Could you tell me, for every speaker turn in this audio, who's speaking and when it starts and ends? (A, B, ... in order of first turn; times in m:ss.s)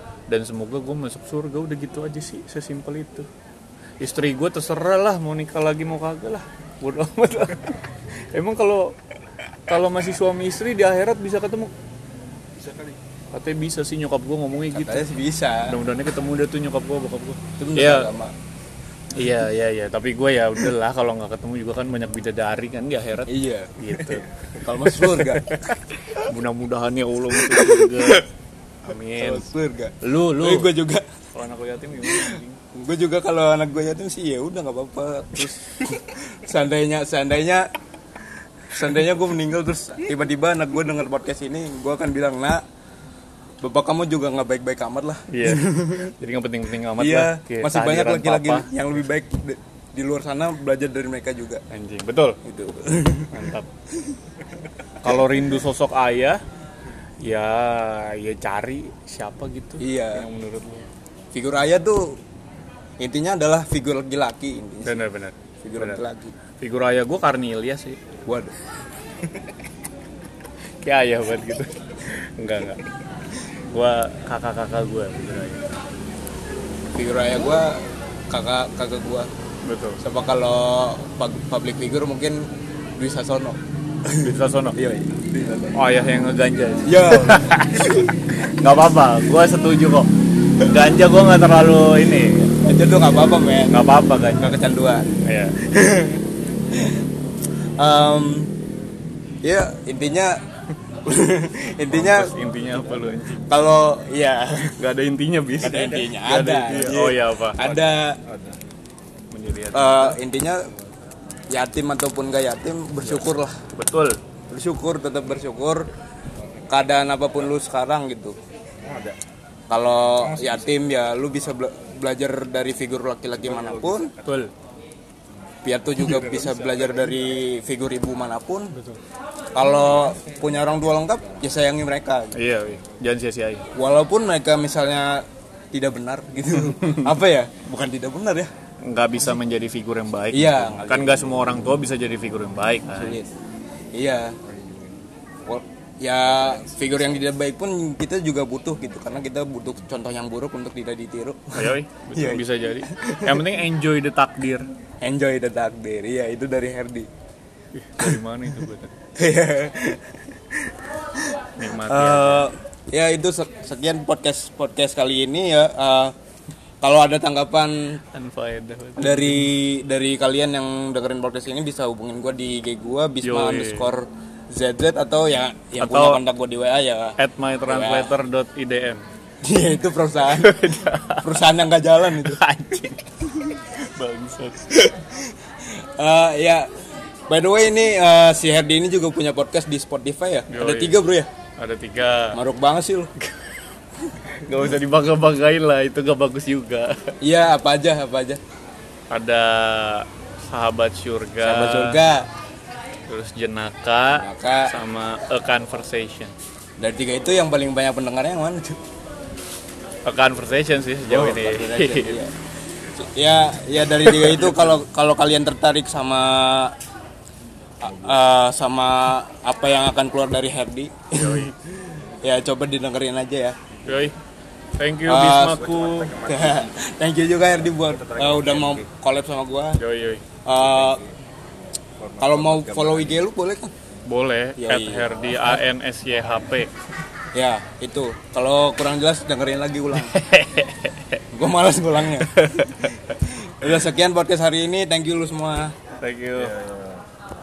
0:00.3-0:03.3 A
0:04.0-0:09.0 A
0:09.7-0:11.7 A
0:12.6-0:13.0 B
0:13.3-0:15.1 A
0:14.7-0:15.8 C
0:15.6-0:18.1 A
0:17.6-0:18.3 C
0:19.1-0:28.2 A
0:23.3-0:25.6 C
0:27.3-0:28.2 C
0:28.8-0:29.5 A
0:29.1-0:31.0 C
0:30.0-0:30.7 A
0:31.3-0:32.6 A
0:32.0-0:37.7 C
0:38.7-0:42.6 C
0:43.6-0:46.1 C
0:45.3-0:48.7 A
0:47.0-0:51.6 C
0:51.7-0:52.4 A
0:52.4-0:53.4 C
0:53.3-0:53.7 A
0:55.0-0:56.4 A
0:57.2-1:00.9 A
0:59.8-1:00.3 C
1:01.3-1:02.2 C
1:03.0-1:05.0 C
1:04.8-1:06.0 A
1:05.6-1:06.3 C
1:06.6-1:08.0 A
1:08.2-1:08.5 C
1:10.8-1:12.8 A
1:13.7-1:15.7 A
1:16.9-1:19.3 C
1:19.6-1:20.0 A
1:20.0-1:25.8 C
1:24.2-1:24.8 A
1:25.8-1:32.6 A
1:26.8-1:28.1 C
1:32.6-1:33.8 C
1:33.7-1:34.6 A
1:34.4-1:37.0 C
1:35.2-1:35.6 A
1:37.8-1:38.5 C
1:39.4-1:40.4 C
1:41.0-1:42.3 C
1:41.9-1:43.4 A
1:43.4-1:44.8 C
1:44.8-1:47.6 A
1:45.6-1:48.2 C
1:45.6-1:46.1 B
1:46.7-1:47.0 B
1:47.5-1:48.6 B
1:49.3-1:50.2 A
1:49.7-1:50.7 C
1:51.5-1:53.6 C
1:53.0-1:54.2 A
1:54.5-1:55.9 C
1:56.7-1:58.4 C
1:58.8-1:59.2 B
1:59.7-2:04.1 C
2:00.0-2:00.8 B
2:03.4-2:04.3 B
2:04.2-2:04.5 A
2:05.6-2:08.7 C
2:06.0-2:07.4 B
2:08.7-2:09.0 A
2:09.5-2:12.4 C
2:12.3-2:13.7 A
2:13.7-2:18.5 C
2:16.5-2:17.2 A
2:18.8-2:23.2 A
2:20.3-2:21.5 C
2:22.9-2:23.3 C
2:23.9-2:24.4 C
2:24.4-2:25.0 B
2:25.4-2:33.4 C
2:26.4-2:27.2 B
2:31.5-2:34.6 A
2:35.0-2:37.1 C
2:37.7-2:38.9 A
2:39.2-2:40.8 C
2:41.6-2:42.5 A
2:41.7-2:46.1 C
2:46.8-2:48.0 C
2:48.1-2:49.5 A
2:49.0-2:57.2 C
2:53.2-2:53.9 A
2:55.8-2:56.2 A
2:57.2-2:59.0 A
2:57.7-2:58.1 C
2:59.4-3:02.4 C
3:00.2-3:01.5 A
3:02.1-3:04.7 A
3:04.7-3:06.7 C
3:07.3-3:11.3 C
3:10.5-3:11.0 A
3:11.6-3:12.4 A
3:12.3-3:13.1 C
3:13.2-3:13.5 A
3:14.2-3:17.1 A
3:17.2-3:18.4 C
3:19.1-3:22.0 A
3:21.4-3:22.3 C
3:23.1-3:26.3 A
3:24.1-3:24.7 C
3:26.8-3:28.8 C
3:30.0-3:32.2 A
3:31.0-3:32.3 C
3:33.0-3:36.7 C
3:34.0-3:34.8 A
3:37.8-3:41.5 C
3:41.1-3:41.5 A
3:42.2-3:43.6 C
3:43.7-3:44.1 B
3:43.8-3:44.2 A
3:44.8-3:46.1 A
3:45.1-3:45.6 C
3:45.4-3:46.8 B
3:46.2-3:49.8 C
3:47.6-3:48.9 B
3:49.8-3:50.2 A
3:50.4-3:51.0 C
3:50.5-3:51.1 B
3:52.0-3:53.3 B
3:52.2-3:53.7 C
3:54.0-3:56.7 A
3:54.6-3:55.5 C
3:57.3-4:00.2 C
3:59.9-4:01.2 A
4:01.3-4:05.7 C
4:02.2-4:03.0 A
4:06.0-4:06.5 A
4:06.3-4:07.0 B